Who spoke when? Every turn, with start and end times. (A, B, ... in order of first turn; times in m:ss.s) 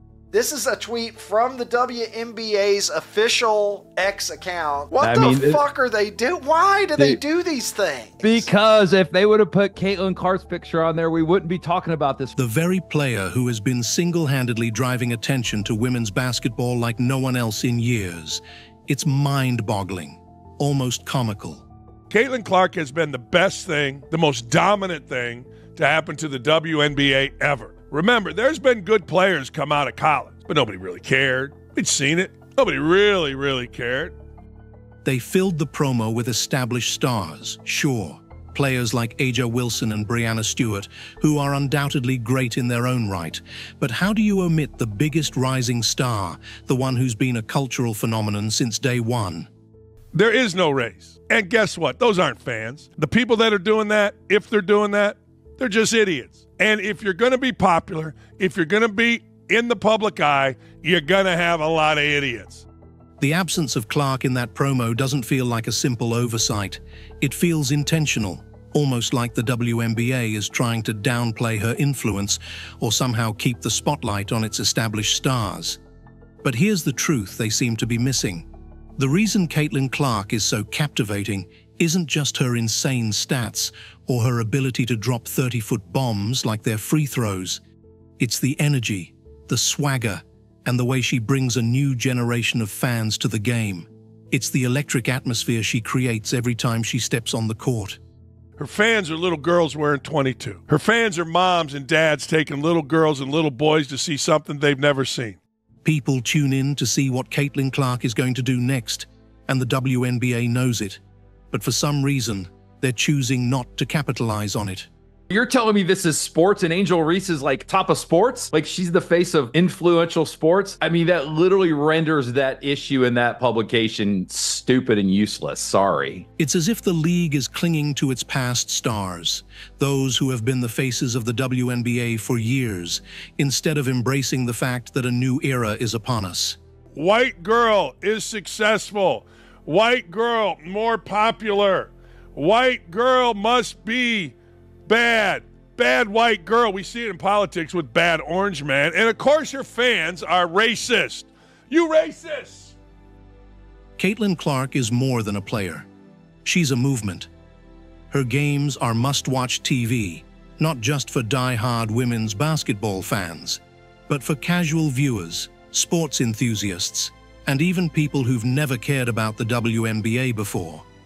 0:00.3-0:08.5 A
0:05.0-0:05.6 B
0:08.2-0:12.4 B
0:12.4-0:21.6 C
0:22.1-0:34.1 D
0:35.0-0:49.5 C
0:50.1-1:02.6 D
1:03.2-1:15.8 C
1:16.4-1:27.6 C
1:28.2-1:38.0 C
1:38.6-1:45.4 D
1:45.8-1:54.9 C
1:55.3-2:06.3 B
2:06.4-2:16.6 C
2:16.9-2:24.3 D
2:24.9-2:32.7 D
2:34.0-2:35.9 C
2:36.4-2:37.3 C
2:38.1-2:50.8 C